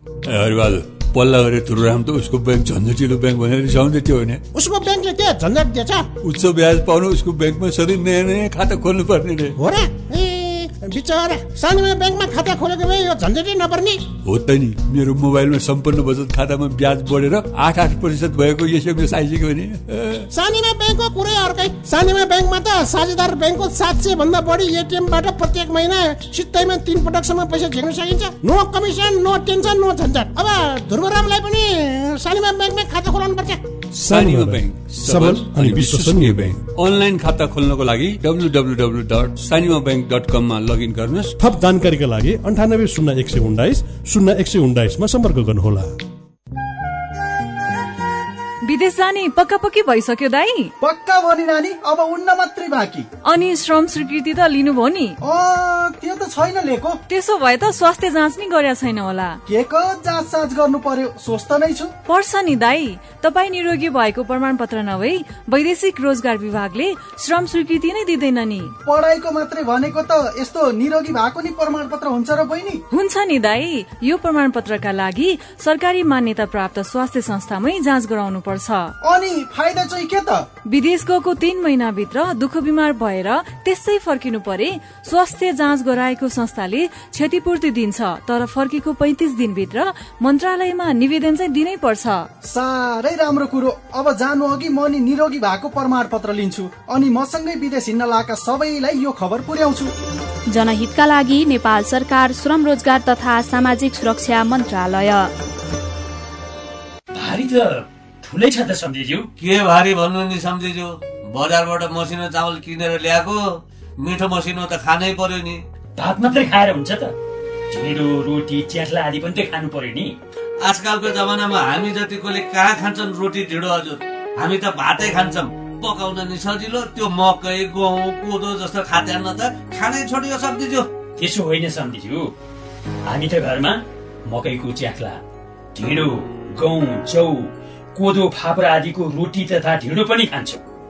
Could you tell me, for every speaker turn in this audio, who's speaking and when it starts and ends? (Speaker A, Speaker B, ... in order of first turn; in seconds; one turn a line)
Speaker A: 0.3-4.4
Speaker B: 4.5-6.1
Speaker A: 6.2-9.6
Speaker B: 9.6-14.0
Speaker A: 14.3-20.3
Speaker B: 20.3-33.6
Speaker C: 34.0-36.5
Speaker A: 34.0-41.3
Speaker C: 41.4-45.9
Speaker D: 48.6-50.7
Speaker E: 50.8-53.1
Speaker D: 53.2-55.2
Speaker E: 55.2-57.0
Speaker D: 57.1-59.4
Speaker E: 59.5-62.0
Speaker D: 62.1-68.8
Speaker E: 68.9-72.8
Speaker D: 72.9-78.9
Speaker E: 79.0-80.5
Speaker D: 80.7-92.3
Speaker E: 92.4-99.9
Speaker F: 100.5-105.3
Speaker G: 107.2-109.3
Speaker H: 109.4-113.4
Speaker H: 114.0-115.6
Speaker G: 116.0-117.1
Speaker G: 117.7-120.1
Speaker H: 120.7-130.9
Speaker G: 131.2-132.3
Speaker G: 133.1-135.2
Speaker G: 135.8-140.6